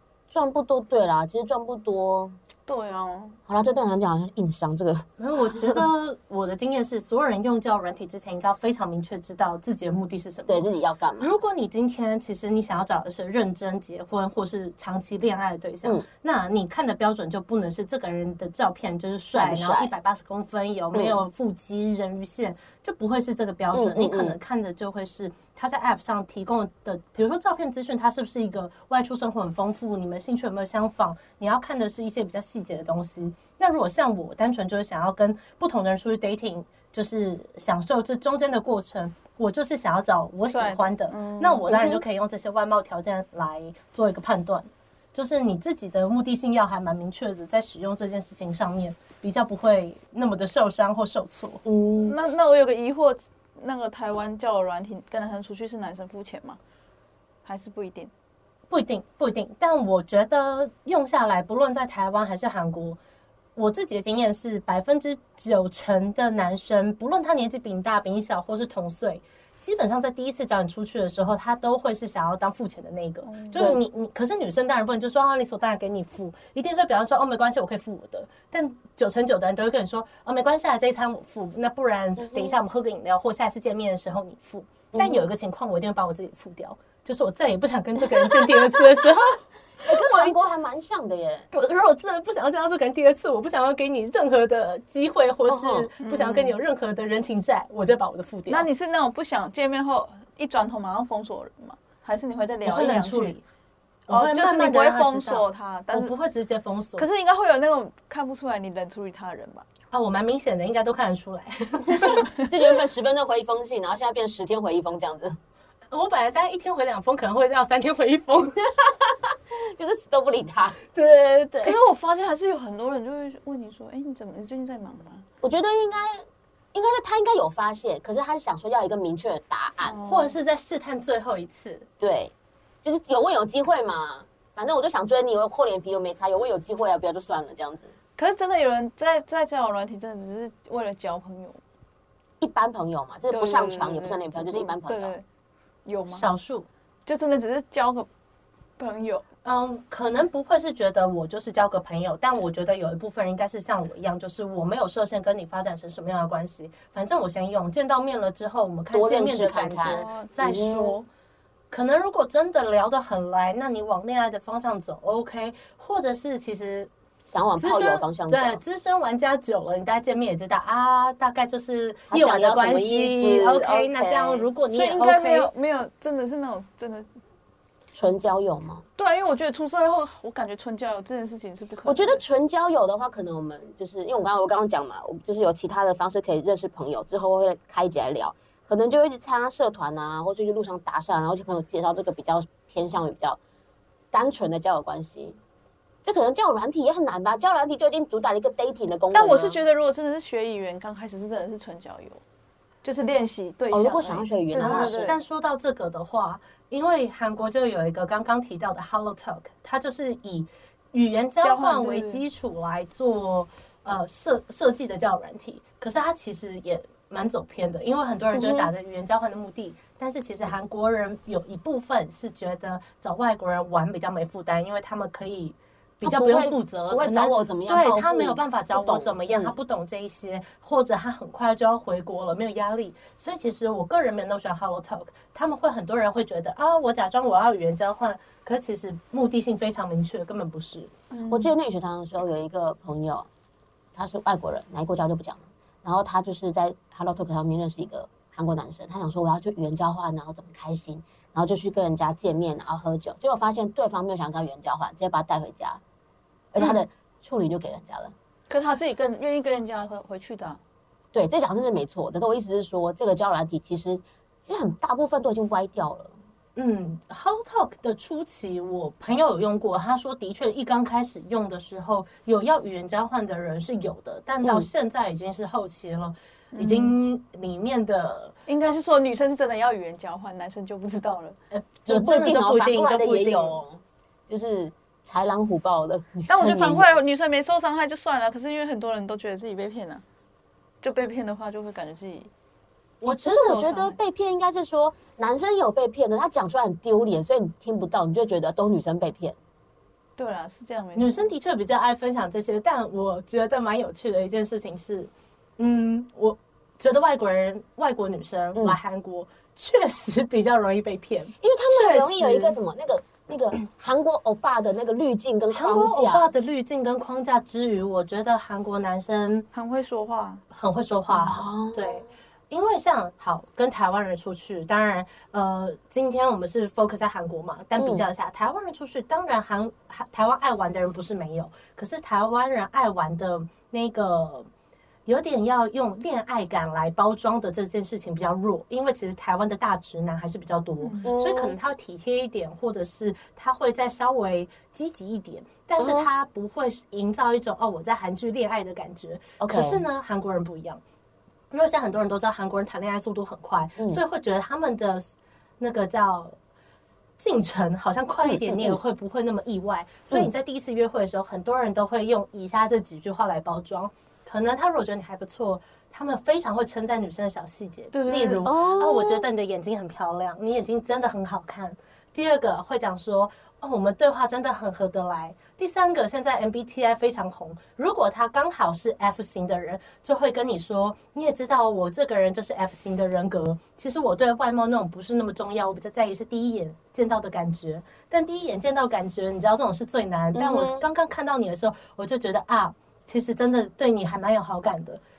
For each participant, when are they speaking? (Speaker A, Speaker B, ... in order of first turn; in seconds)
Speaker A: 0.3-2.4, 3.5-5.8, 10.5-11.3, 19.3-19.9, 20.9-21.2, 23.7-24.4, 41.7-42.0, 51.6-52.1, 73.5-73.8, 82.2-82.6, 84.9-85.2, 89.8-91.5, 95.5-95.9, 112.0-115.4, 118.6-120.8, 125.4-130.0, 132.0-132.3, 132.8-137.9, 142.4-145.1, 158.9-160.9, 167.3-168.6, 172.1-174.5, 177.9-178.8, 181.8-193.4, 194.1-195.4, 196.0-199.6, 203.7-205.0, 218.3-218.7, 226.0-229.5, 241.3-243.3, 243.9-255.8, 256.5-258.1, 261.1-266.1, 274.4-274.7, 281.9-286.9, 293.0-299.4, 311.4-316.3, 321.1-322.1, 327.8-328.0, 341.0-341.6, 345.8-346.1, 349.4-349.8, 358.2-358.8, 368.4-369.2, 390.3-390.8
Speaker B: 2.6-3.4, 40.4-41.8, 52.0-56.6, 57.4-58.1, 73.2-73.7, 96.0-96.5, 98.5-103.4, 104.1-106.1, 107.0-109.7, 121.6-125.2, 129.8-130.3, 138.2-141.6, 143.3-145.2, 145.8-146.3, 147.1-148.1, 148.8-149.2, 159.9-160.3, 174.7-177.1, 179.0-182.2, 199.1-202.2, 202.8-205.2, 211.4-212.2, 241.1-241.5, 258.5-260.6, 276.5-276.9, 278.5-281.4, 286.3-290.0, 290.8-292.3, 300.2-301.3, 319.5-320.4, 367.9-368.5
Speaker C: 5.2-10.7, 11.2-51.6, 58.7-63.0, 63.5-90.4, 91.5-98.7, 102.6-103.4, 104.1-107.1, 109.9-112.3, 115.9-118.7, 120.9-121.8, 130.0-131.9, 146.1-146.7, 149.4-161.1, 161.7-166.9, 167.6-175.5, 204.6-240.9, 266.6-278.3, 281.5-283.6, 293.0-293.9, 300.9-312.6, 315.5-319.5, 320.5-334.5, 335.1-350.8, 351.5-356.4, 357.2-395.0